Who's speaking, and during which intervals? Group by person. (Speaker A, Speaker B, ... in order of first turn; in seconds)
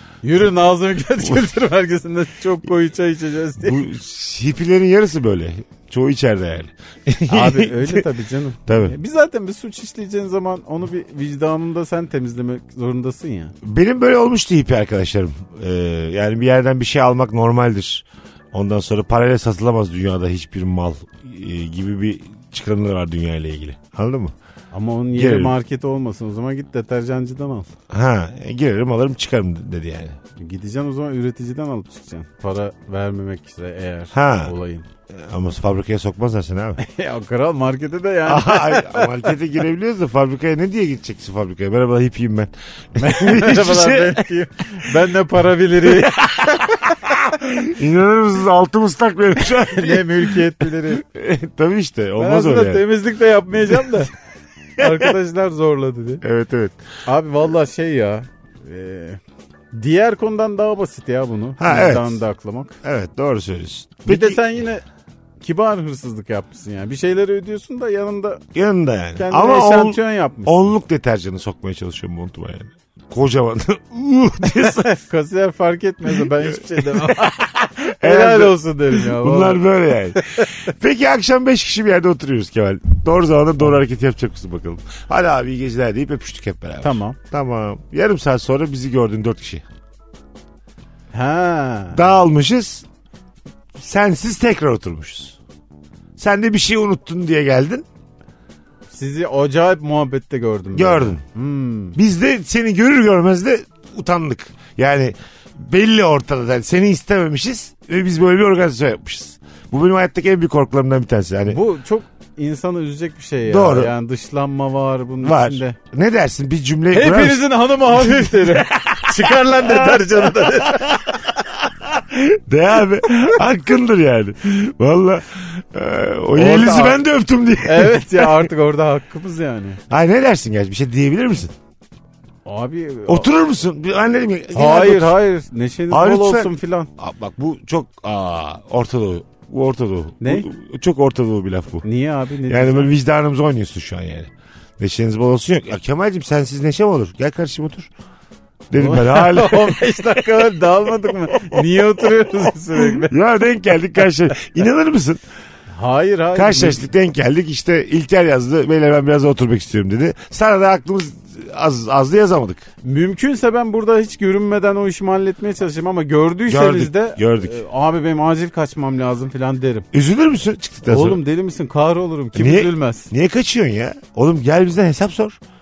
Speaker A: 0.2-3.8, 7.3-13.5, 24.7-27.7, 30.4-34.9, 36.8-39.3, 43.0-46.7, 49.5-51.0, 52.2-54.1, 54.8-56.2, 57.0-59.2, 59.7-62.8, 64.0-64.8, 65.4-68.4, 69.2-70.7, 74.8-79.7, 86.8-87.2, 91.1-92.0, 98.9-102.0, 111.5-115.8, 116.9-121.3, 126.3-127.0, 127.6-129.8, 132.4-133.3, 134.5-136.9, 140.2-140.5, 141.8-142.9, 148.7-153.2, 155.7-156.8, 162.8-169.9, 170.8-173.1
Speaker B: 3.6-8.1, 8.7-8.9, 13.6-24.3, 25.1-25.5, 27.9-30.2, 34.1-34.5, 35.1-36.8, 38.2-44.3, 45.8-52.8, 54.8-55.1, 56.2-56.8, 61.6-62.2, 62.8-64.4, 68.5-74.9, 76.5-89.6, 91.9-92.8, 93.7-95.4, 96.2-97.8, 100.7-101.2, 102.0-111.6, 113.4-113.9, 115.2-128.5, 129.9-131.5, 133.1-135.2, 135.9-141.8, 142.5-147.9, 148.7-150.5, 151.4-151.7, 152.8-155.2, 156.3-162.7, 166.5-167.6, 169.9-171.2, 172.3-175.4